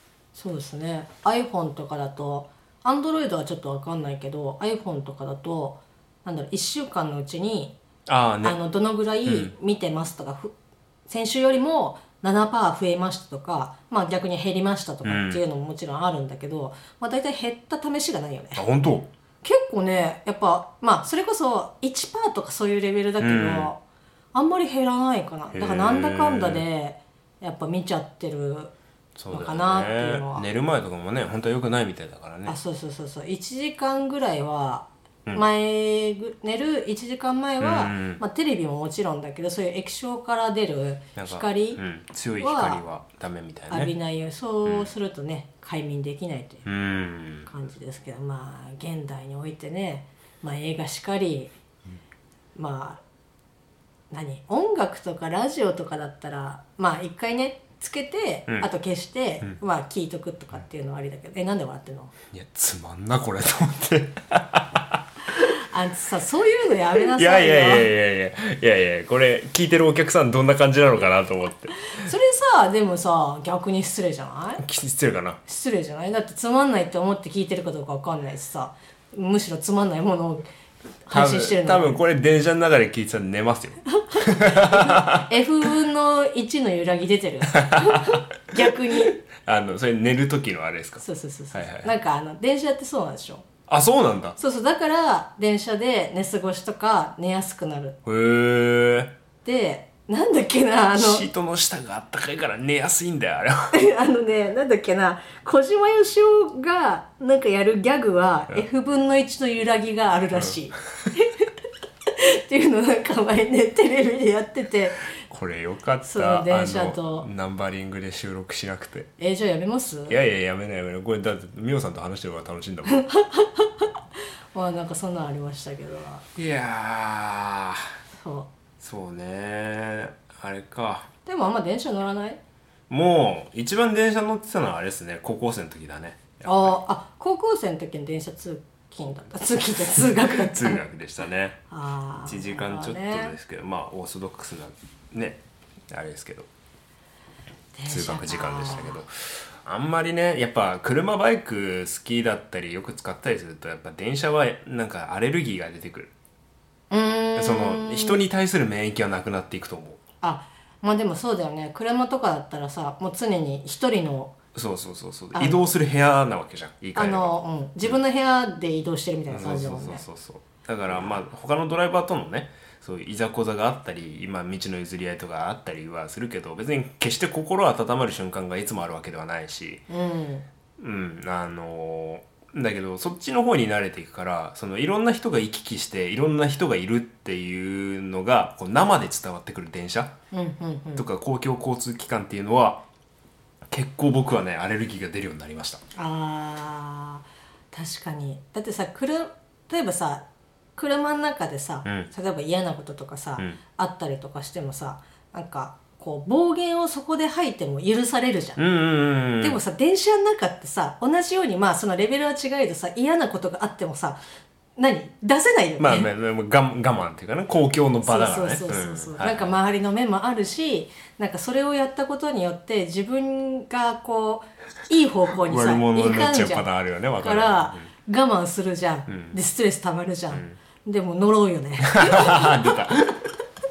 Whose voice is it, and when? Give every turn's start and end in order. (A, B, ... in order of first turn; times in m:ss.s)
0:00.4-0:07.8 A
0:08.1-0:08.6 B
0:08.4-0:10.5 A
0:09.2-0:09.5 B
0:11.1-0:18.6 A
0:15.0-0:15.4 B
0:18.6-0:19.1 B
0:19.4-0:23.8 A
0:23.2-0:23.7 B
0:24.3-0:28.7 A
0:25.5-0:26.6 B
0:29.2-0:32.6 B
0:29.3-0:30.5 A
0:32.4-0:41.8 A
0:37.6-0:38.2 B
0:41.2-0:43.9 B
0:42.4-0:42.8 A
0:43.7-0:46.7 A
0:46.7-0:47.5 B
0:47.5-0:51.5 A
0:52.6-0:53.0 A
0:54.1-1:02.1 A
1:02.3-1:05.0 B
1:05.4-1:07.9 A
1:07.0-1:11.8 B
1:11.9-1:14.6 A
1:14.6-1:15.4 B
1:15.5-1:20.4 A
1:21.1-1:22.0 A
1:21.1-1:25.3 B
1:24.0-1:29.2 A
1:27.5-1:28.2 B
1:28.9-1:31.9 B
1:31.0-1:33.5 A
1:33.7-1:34.4 B
1:34.4-1:38.0 A
1:38.0-1:39.1 B
1:39.4-1:41.3 A
1:41.0-1:43.7 B
1:43.7-1:51.5 A
1:52.1-1:55.1 A
1:55.2-1:59.1 B
1:56.0-1:57.3 A
1:59.2-2:00.2 A
2:00.1-2:03.0 B
2:02.9-2:03.9 A
2:04.5-2:06.2 A
2:06.4-2:07.9 B
2:08.1-2:08.5 A
2:08.8-2:11.1 B
2:11.3-2:12.4 A
2:12.9-2:16.8 B
2:16.4-2:20.8 A
2:20.2-2:21.6 B
2:21.7-2:23.4 A
2:22.3-2:26.5 B
2:27.8-2:29.0 A
2:27.9-2:36.1 B
2:36.9-2:38.2 A
2:37.4-2:40.0 B
2:40.2-2:44.4 A
2:44.6-2:48.0 B
2:45.3-2:45.6 A
2:47.0-2:50.0 A
2:49.3-2:59.8 B
2:59.9-3:00.4 A
3:00.8-3:10.1 B
3:10.3-3:11.1 A
3:11.0-3:12.8 B
3:13.7-3:15.8 B
3:16.0-3:20.2 A
3:20.8-3:28.6 A
3:28.6-3:29.6 B
3:29.4-3:34.2 A
3:34.8-3:36.1 A
3:35.8-3:39.6 B
3:38.0-3:46.7 A
3:45.5-3:47.9 B
3:47.2-3:52.8 A
3:49.1-3:49.4 B
3:50.3-3:50.6 B
3:51.9-3:53.2 B